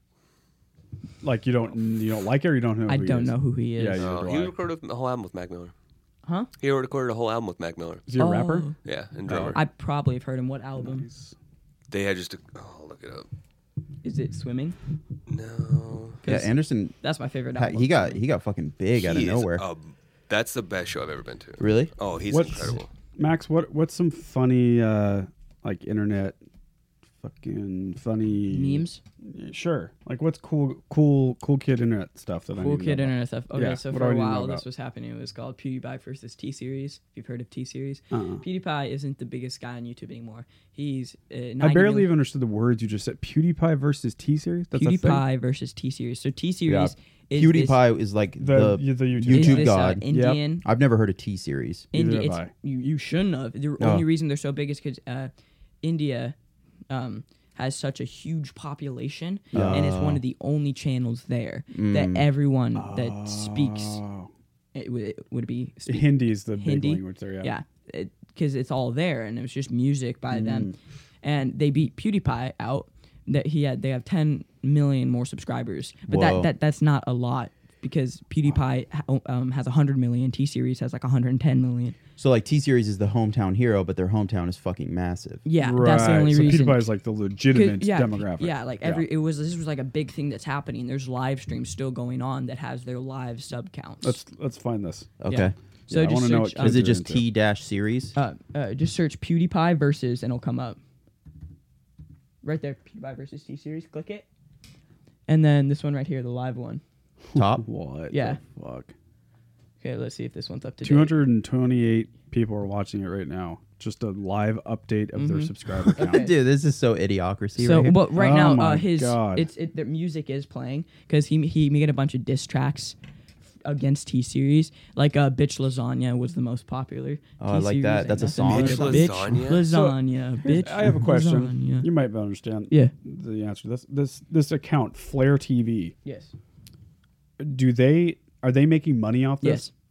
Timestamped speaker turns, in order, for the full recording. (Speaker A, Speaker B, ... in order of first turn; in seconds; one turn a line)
Speaker A: 1.2-4.5
Speaker B: 2.9-4.0
Speaker C: 4.0-5.7
Speaker C: 6.6-8.0
Speaker A: 8.1-8.7
Speaker B: 8.2-8.8
Speaker C: 8.8-9.6
Speaker A: 9.3-9.6
Speaker B: 9.5-11.1
Speaker A: 10.8-11.3
Speaker C: 11.9-13.3
Speaker B: 14.0-14.8
Speaker C: 15.3-16.2
Speaker B: 16.2-18.2
Speaker D: 16.2-16.9
Speaker D: 17.5-19.6
Speaker C: 18.9-22.9
Speaker D: 21.6-21.9
Speaker A: 22.3-26.4
Speaker A: 27.2-34.6
Speaker B: 28.5-29.0
Speaker B: 32.5-42.1
Speaker A: 38.1-38.4
Speaker A: 41.6-45.2
Speaker B: 44.7-47.8
Speaker D: 46.6-50.1
Speaker A: 48.4-50.4
Speaker B: 49.3-50.6
Speaker D: 50.6-51.9
Speaker B: 51.9-55.3
Speaker A: 51.9-52.5
Speaker D: 53.8-54.0
Speaker B: 55.8-56.3
Speaker B: 56.9-64.0
Speaker D: 59.5-60.2
Speaker A: 59.5-59.9
Speaker D: 61.7-62.3
Speaker A: 62.7-64.3
Speaker B: 64.7-82.0
Speaker A: 65.9-67.5
Speaker A: 70.3-70.7
Speaker D: 76.1-76.5
Speaker D: 82.2-85.4
Speaker B: 85.4-86.9
Speaker A: 85.6-89.0
Speaker D: 86.0-86.4
Speaker B: 87.5-94.2
Speaker A: 94.0-95.1
Speaker D: 95.2-95.5
Speaker B: 95.3-96.8
Speaker A: 95.9-97.2
Speaker D: 96.6-98.1
Speaker B: 98.1-100.8
Speaker B: 102.4-104.2
Speaker B: 105.3-106.8
Speaker D: 107.3-107.6
Speaker A: 107.3-108.9
Speaker B: 108.1-108.4
Speaker B: 109.8-111.2
Speaker A: 110.8-116.2
Speaker B: 115.2-116.3
Speaker D: 115.9-118.0
Speaker B: 117.6-123.0
Speaker A: 118.1-119.5
Speaker B: 123.6-131.9
Speaker D: 127.4-129.1
Speaker C: 128.4-129.6
Speaker A: 129.6-135.9
Speaker B: 136.0-136.3
Speaker A: 137.4-139.7
Speaker B: 139.4-139.7